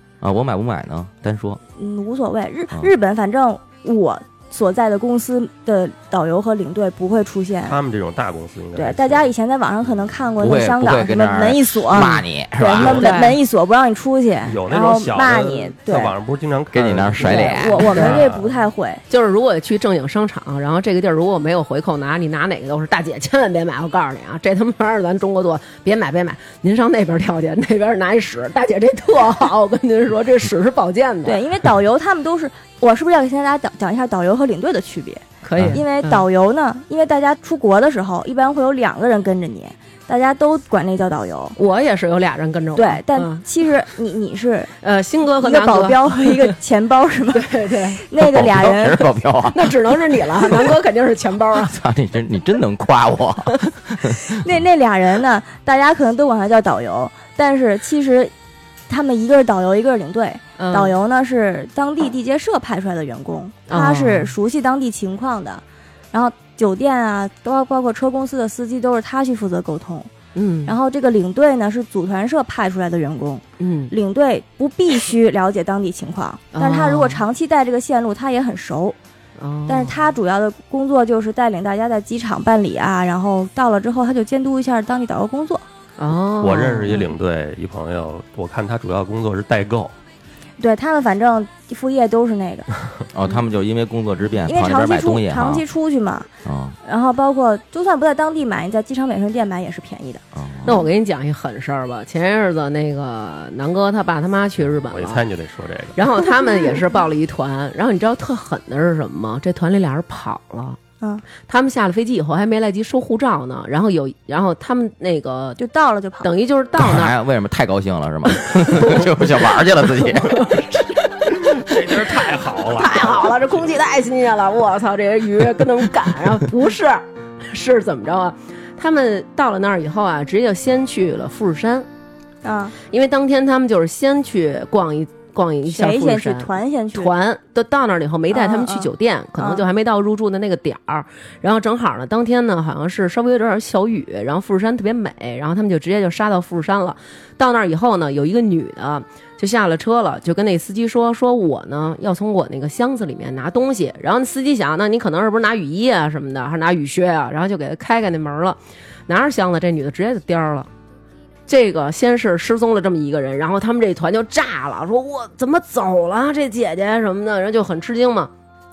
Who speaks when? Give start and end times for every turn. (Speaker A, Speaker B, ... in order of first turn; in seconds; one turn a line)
Speaker A: 0.2-1.6
Speaker B: 1.8-7.8
Speaker C: 7.6-9.3
Speaker B: 8.8-16.1
Speaker A: 10.4-13.2
Speaker D: 12.9-13.4
Speaker C: 14.4-18.5
Speaker A: 16.7-18.0
Speaker B: 17.2-19.0
Speaker D: 17.9-18.2
Speaker D: 19.1-31.4
Speaker B: 31.2-41.5
Speaker D: 35.4-36.2
Speaker D: 41.5-43.4
Speaker B: 42.8-44.7
Speaker D: 44.8-46.5
Speaker B: 45.4-49.1
Speaker D: 47.3-48.0
Speaker A: 48.1-50.4
Speaker D: 49.5-51.8
Speaker A: 51.5-54.5
Speaker B: 54.2-58.3
Speaker B: 58.9-70.1
Speaker D: 60.6-60.9
Speaker D: 63.7-64.3
Speaker D: 70.3-70.7
Speaker B: 70.7-79.0
Speaker D: 73.6-73.9
Speaker D: 76.5-77.2
Speaker D: 79.4-80.0
Speaker B: 79.7-85.7
Speaker D: 86.0-87.1
Speaker C: 86.4-89.9
Speaker B: 90.6-92.7
Speaker A: 93.1-95.7
Speaker B: 94.4-96.3
Speaker A: 96.4-96.8
Speaker B: 96.8-100.2
Speaker A: 100.3-100.9
Speaker D: 100.6-105.2
Speaker C: 104.8-106.0
Speaker D: 106.0-110.8
Speaker B: 106.2-106.9
Speaker D: 111.4-115.6
Speaker B: 115.6-116.3
Speaker D: 116.2-117.1
Speaker A: 116.8-120.6
Speaker D: 118.6-119.1
Speaker D: 119.8-131.9
Speaker C: 121.4-123.6
Speaker B: 132.4-132.7
Speaker D: 132.8-160.7
Speaker B: 135.7-137.1
Speaker B: 138.3-139.6
Speaker D: 161.5-168.3